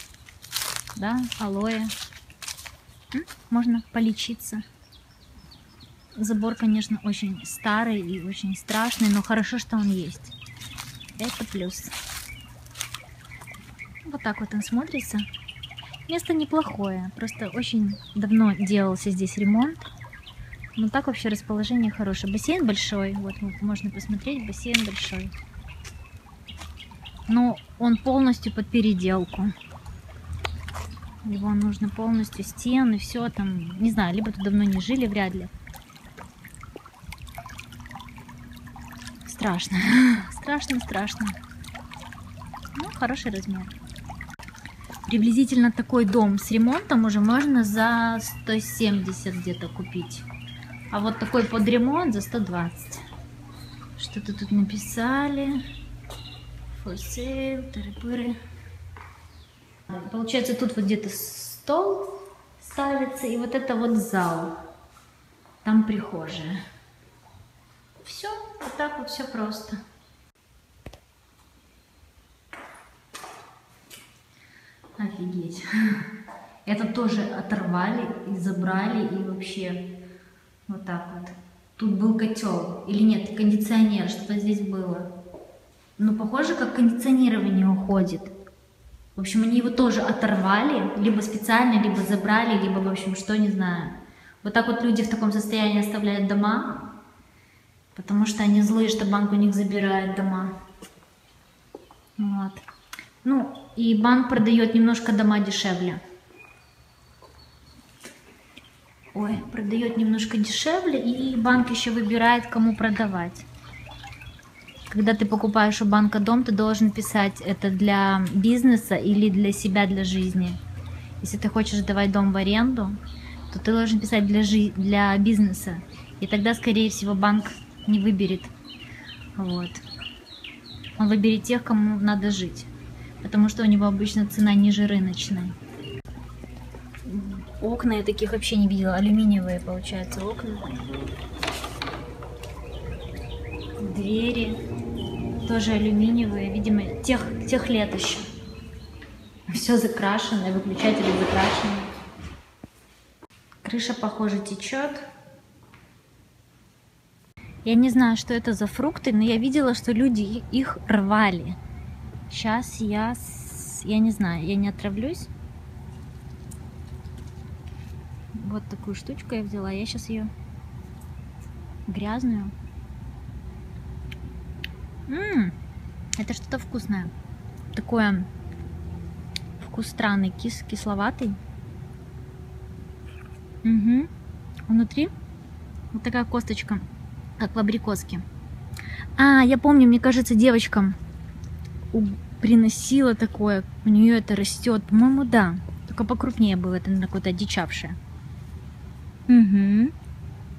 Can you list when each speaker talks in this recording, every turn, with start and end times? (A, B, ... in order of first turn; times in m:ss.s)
0:00.9-0:01.9 A
0:03.1-0:04.6 A
0:06.2-0:10.3 A
0:11.2-0:11.9 A
0:14.0-0:15.2 A
0:16.1-0:19.9 A
0:20.7-0:25.3 A
0:27.3-0:29.5 A
0:31.2-0:35.5 A
0:39.2-0:41.4 A
0:42.7-0:43.8 A
0:45.0-0:50.2 A
0:50.9-0:53.0 A
0:54.0-0:55.6 A
0:56.7-0:58.4 A
0:59.9-1:04.6 A
1:05.6-1:06.6 A
1:08.0-1:09.8 A
1:15.0-1:16.0 A
1:16.6-1:19.9 A
1:20.7-1:25.1 A
1:26.0-1:28.3 A
1:29.1-1:36.8 A
1:37.9-1:40.5 A
1:42.2-1:42.6 A
1:43.2-1:46.0 A
1:49.1-1:53.4 A
1:54.9-2:00.6 A
2:01.2-2:03.0 A
2:03.5-2:08.5 A
2:09.4-2:09.8 A
2:11.0-2:12.7 A
2:13.2-2:15.6 A
2:17.0-2:20.9 A
2:23.8-2:24.6 A
2:25.4-2:28.2 A
2:29.5-2:31.9 A
2:33.6-2:35.0 A
2:37.6-2:41.6 A
2:42.3-2:45.3 A
2:48.3-2:50.3 A
2:51.9-2:52.5 A
2:55.1-2:55.5 A
2:56.2-2:57.1 A
2:57.7-2:58.3 A
2:59.6-3:01.4 A
3:03.6-3:04.1 A
3:04.7-3:05.1 A
3:05.9-3:06.9 A
3:07.4-3:08.2 A
3:09.2-3:11.0 A
3:11.9-3:18.0 A
3:19.3-3:19.9 A